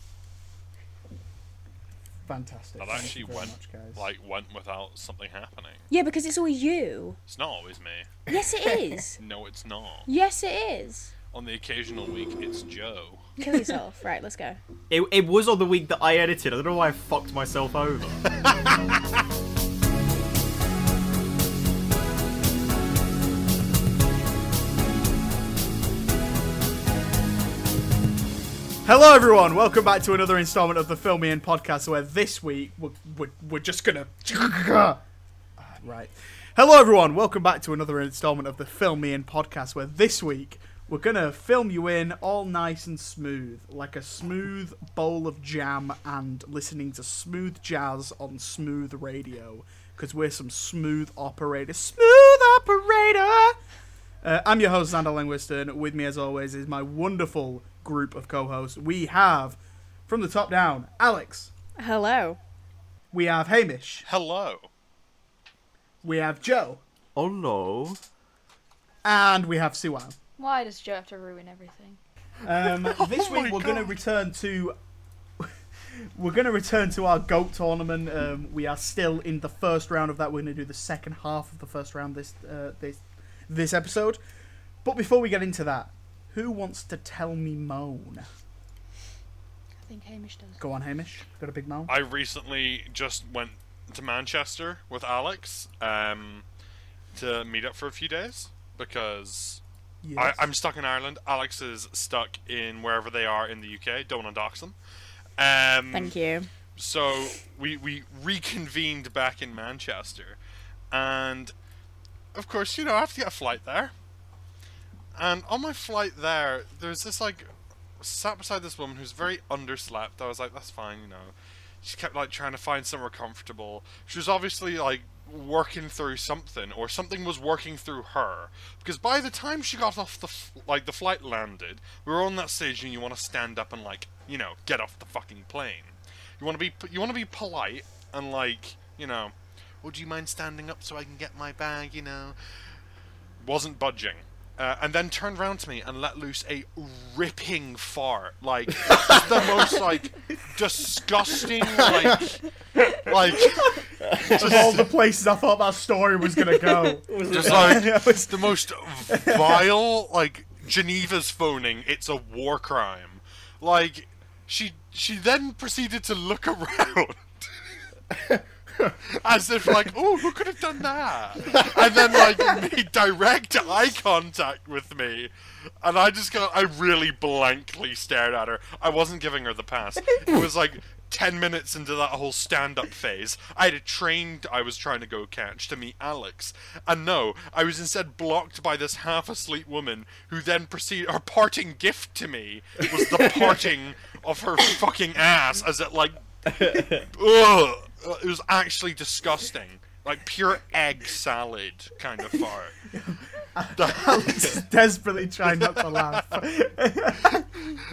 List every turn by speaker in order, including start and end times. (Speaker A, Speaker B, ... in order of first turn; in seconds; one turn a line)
Speaker A: 2.3-4.0
Speaker B: 2.8-5.9
Speaker C: 5.9-7.2
Speaker B: 7.3-8.2
Speaker C: 8.3-9.2
Speaker A: 8.3-8.8
Speaker B: 9.2-10.1
Speaker C: 10.1-11.1
Speaker B: 11.3-13.3
Speaker C: 13.4-14.6
Speaker D: 14.9-18.4
Speaker A: 28.8-35.0
Speaker A: 35.6-53.6
Speaker A: 54.2-61.5
Speaker C: 61.8-62.4
Speaker A: 63.1-64.0
Speaker B: 64.0-64.7
Speaker A: 66.0-66.8
Speaker D: 67.1-68.0
Speaker A: 69.0-70.1
Speaker E: 70.4-72.0
Speaker A: 72.4-74.8
Speaker B: 72.7-73.9
Speaker A: 75.4-84.2
Speaker A: 84.8-88.3
Speaker E: 89.8-90.6
Speaker A: 90.6-91.9
Speaker B: 91.9-96.4
Speaker B: 97.1-99.6
Speaker A: 100.0-100.4
Speaker B: 100.2-104.8
Speaker B: 105.4-106.2
Speaker C: 105.9-106.5
Speaker B: 106.8-110.4
Speaker B: 110.9-111.5
Speaker B: 112.3-113.9
Speaker B: 115.2-142.8
Speaker B: 143.4-154.9
Speaker D: 148.8-149.8
Speaker D: 151.8-152.3
Speaker D: 153.4-154.8
Speaker A: 154.2-159.7
Speaker D: 157.1-157.9
Speaker B: 157.3-167.8
Speaker D: 168.1-168.9
Speaker B: 169.1-196.5
Speaker A: 193.2-193.6
Speaker D: 196.5-197.1
Speaker B: 197.1-202.8
Speaker A: 202.9-207.8
Speaker B: 203.7-204.6
Speaker B: 205.4-206.4